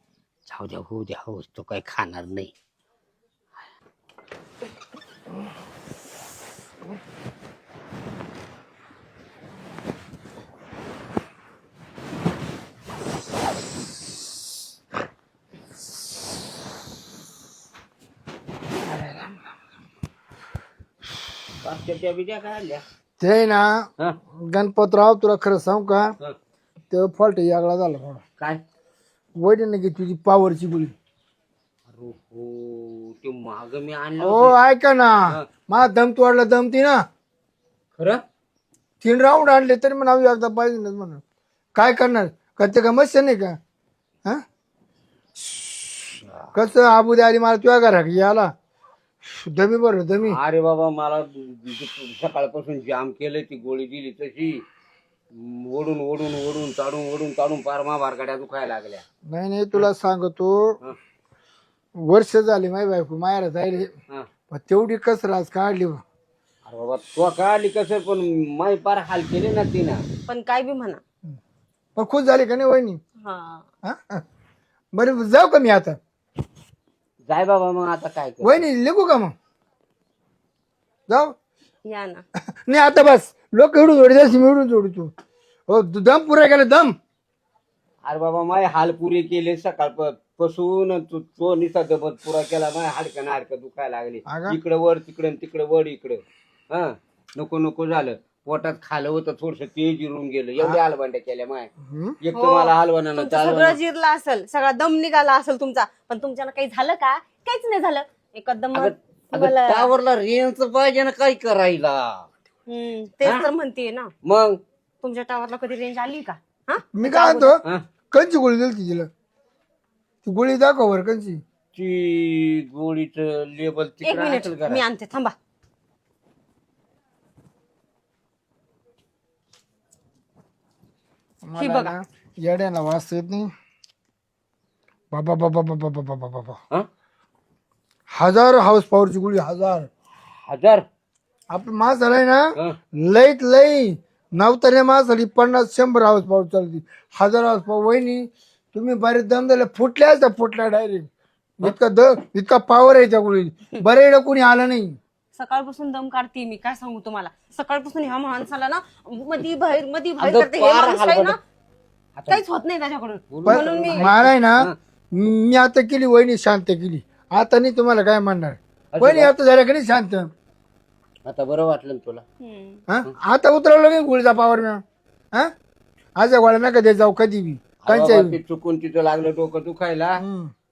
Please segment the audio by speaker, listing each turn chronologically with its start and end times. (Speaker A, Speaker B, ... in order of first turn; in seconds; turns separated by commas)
Speaker A: 0.5-2.5, Speaker A: 21.6-22.8, Speaker B: 23.2-26.1, Speaker B: 26.9-28.2, Speaker B: 29.4-30.9, Speaker A: 31.9-34.6, Speaker B: 34.2-37.0, Speaker B: 39.0-41.2, Speaker B: 41.8-43.6, Speaker B: 46.5-48.5, Speaker B: 49.2-50.4, Speaker A: 50.2-54.6, Speaker A: 55.4-59.0, Speaker B: 59.3-60.8, Speaker B: 62.0-63.9, Speaker B: 64.5-66.0, Speaker A: 66.7-70.0, Speaker C: 70.3-71.0, Speaker B: 72.0-73.0, Speaker C: 73.2-73.7, Speaker B: 73.8-74.2, Speaker B: 75.0-76.0, Speaker A: 77.3-78.6, Speaker B: 78.4-79.3, Speaker B: 81.1-81.3, Speaker C: 81.9-82.2, Speaker B: 82.7-85.1, Speaker B: 85.7-86.9, Speaker A: 88.0-101.7, Speaker B: 94.3-94.6, Speaker B: 101.8-102.2, Speaker A: 102.2-103.8, Speaker C: 102.3-109.9, Speaker A: 108.7-112.3, Speaker C: 112.7-114.1, Speaker A: 114.2-114.6, Speaker C: 115.0-117.6, Speaker B: 117.0-119.1, Speaker B: 120.2-121.4, Speaker A: 121.8-124.8, Speaker C: 124.0-125.4, Speaker B: 131.4-133.5, Speaker C: 131.6-131.9, Speaker B: 135.1-136.6, Speaker B: 138.1-139.9, Speaker A: 140.5-140.8, Speaker B: 141.5-155.0, Speaker C: 155.3-161.4, Speaker A: 160.2-161.4, Speaker C: 162.3-164.1, Speaker A: 163.3-164.8, Speaker B: 163.5-170.3, Speaker A: 168.9-169.3, Speaker A: 171.3-172.2, Speaker C: 172.4-172.8, Speaker B: 172.9-174.8, Speaker B: 176.2-178.4, Speaker A: 177.8-180.2, Speaker B: 180.2-180.5